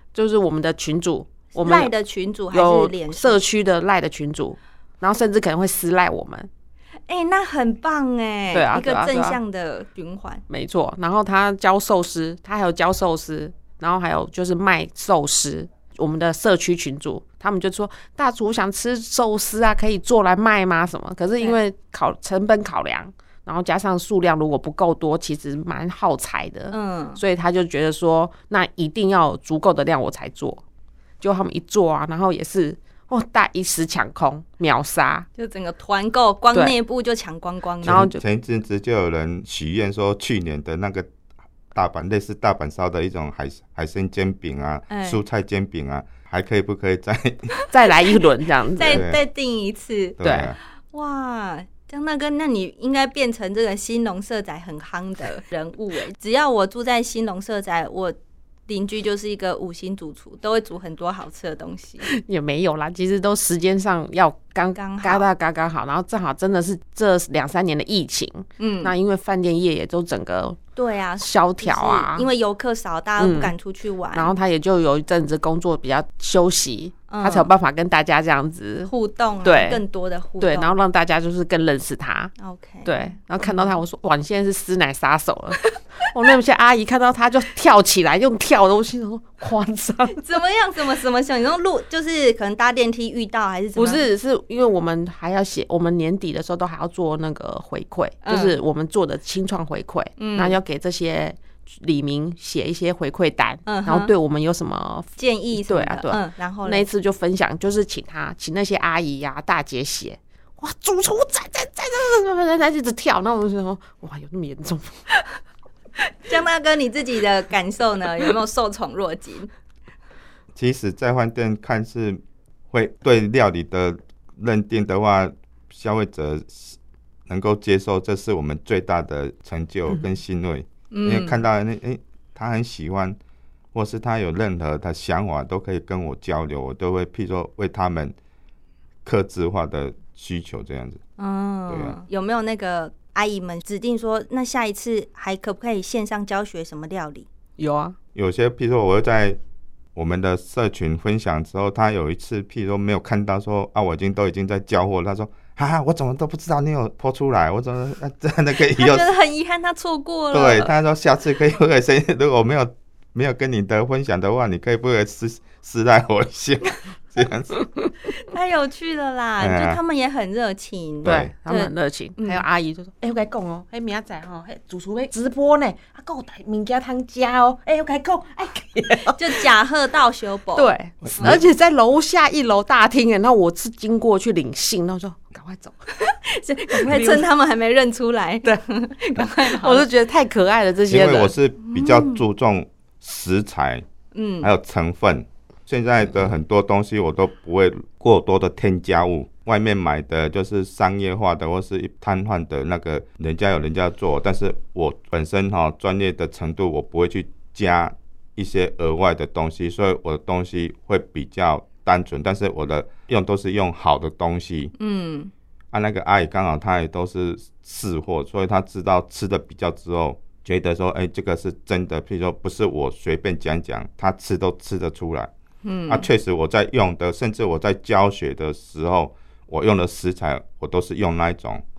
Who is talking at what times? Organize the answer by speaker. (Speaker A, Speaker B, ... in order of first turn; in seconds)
Speaker A: 0.1-1.9, 2.5-6.5, 8.5-9.4, 10.5-30.6, 31.2-35.3, 37.8-38.2, 47.7-49.0, 50.2-50.5, 62.1-70.6, 71.2-72.3, 73.2-73.5, 74.1-78.9, 79.4-79.8, 80.4-82.3, 82.8-90.2, 93.8-105.1, 105.6-115.0, 147.6-147.9, 171.0-179.4, 180.6-185.8, 186.7-187.3, 189.4-191.3
Speaker B: 1.5-3.4, 7.1-10.4, 26.7-27.2, 35.4-38.1, 44.9-45.2, 47.5-48.2, 48.7-50.2, 50.9-58.1, 58.7-62.1, 64.7-65.2, 68.6-68.9, 70.8-74.3, 77.1-77.5, 78.9-80.8, 82.4-83.8, 90.1-94.0, 98.2-98.6, 100.2-100.6, 103.7-104.1, 105.2-106.9, 116.2-119.5, 130.9-131.4, 141.2-147.3, 158.7-160.7, 168.1-172.4, 179.2-181.3, 186.0-189.9, 191.6-192.2, 194.1-194.5, 214.8-215.3, 225.6-226.1
Speaker C: 37.8-41.1, 41.7-47.5, 48.9-49.2, 50.2-50.6, 120.5-126.8, 127.3-133.2, 133.7-138.1, 139.0-141.0, 141.7-142.0, 148.1-149.4, 149.9-159.1, 160.3-167.6, 169.4-169.8, 171.0-171.3, 181.0-181.4, 190.9-193.8, 194.4-214.7, 215.7-225.3, 225.9-231.6